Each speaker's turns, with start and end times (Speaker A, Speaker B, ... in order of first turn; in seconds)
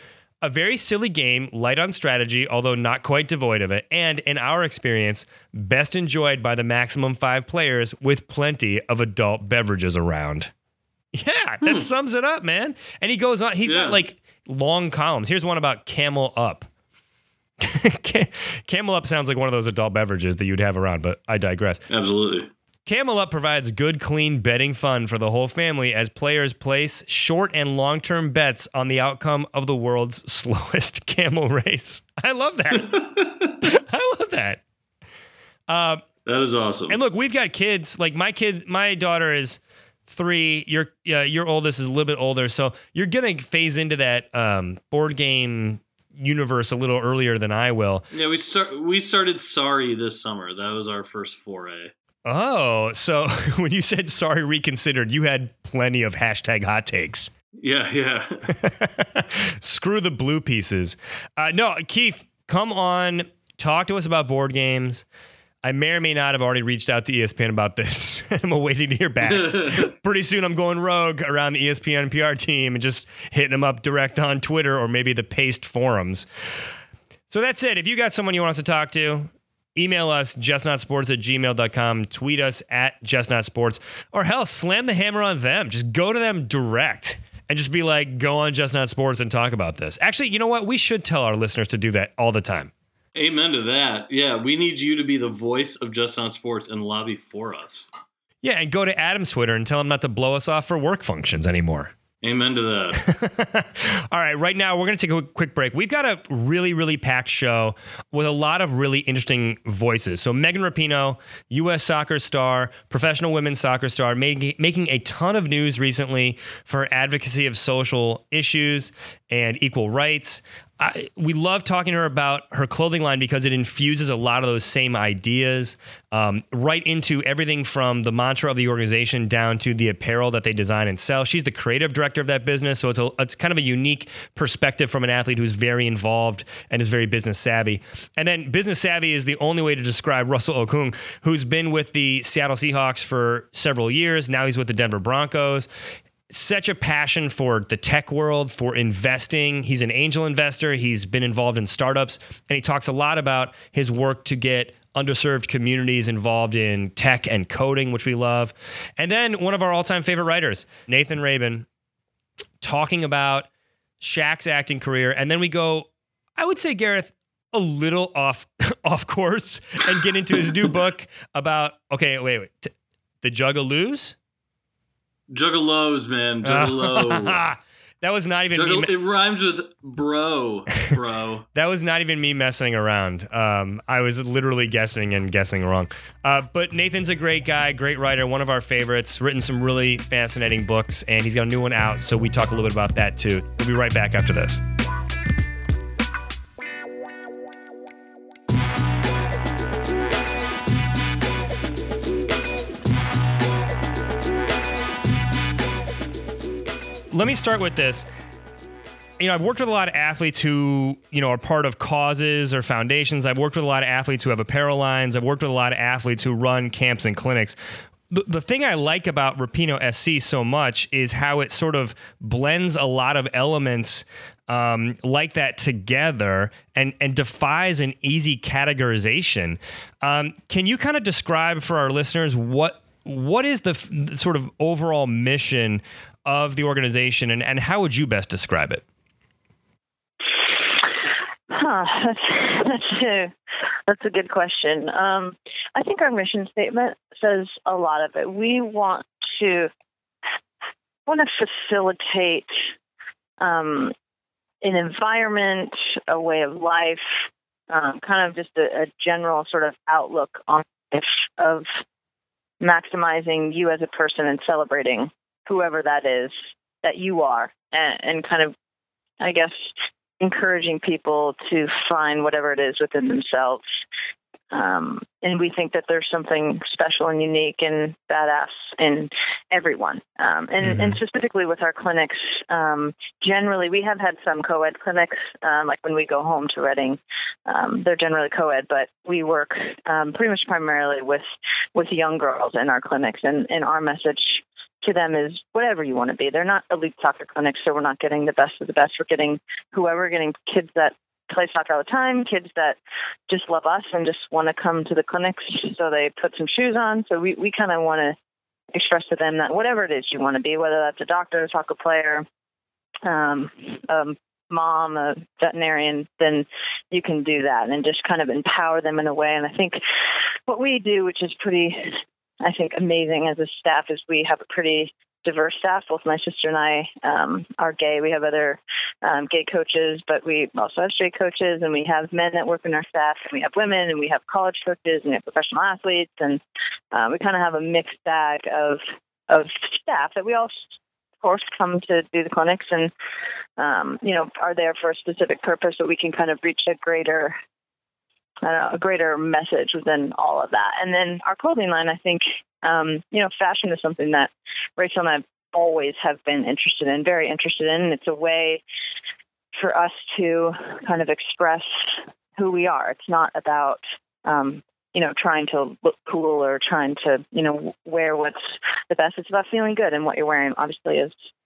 Speaker A: 0.4-10.5, 11.1-16.7, 17.6-21.8, 22.9-33.0, 33.6-34.6, 35.7-36.0, 36.9-48.0, 52.2-57.3, 58.6-65.0, 65.6-76.2, 77.3-92.7, 98.4-101.9, 103.0-145.7, 146.3-161.7, 162.6-163.5, 164.0-174.2, 176.4-178.9, 181.5-194.6, 207.1-208.1, 209.2-217.6, 218.1-238.8
Speaker B: 13.7-14.0, 21.9-22.5, 32.8-33.5, 36.2-37.0, 48.1-51.9, 57.5-58.5, 69.3-69.9, 93.1-97.9, 102.2-103.0, 175.3-177.4, 178.5-181.4
Speaker C: 241.5-243.3, 243.9-249.7, 251.1-252.6, 253.4-253.9, 254.6-257.0, 257.7-261.7, 262.6-268.5, 269.2-273.6, 274.5-291.2, 291.7-302.8, 303.3-308.1, 308.7-312.2, 313.1-319.8, 320.5-336.4, 336.9-340.6, 341.2-342.9, 343.6-347.4, 348.4-358.6, 359.5-371.1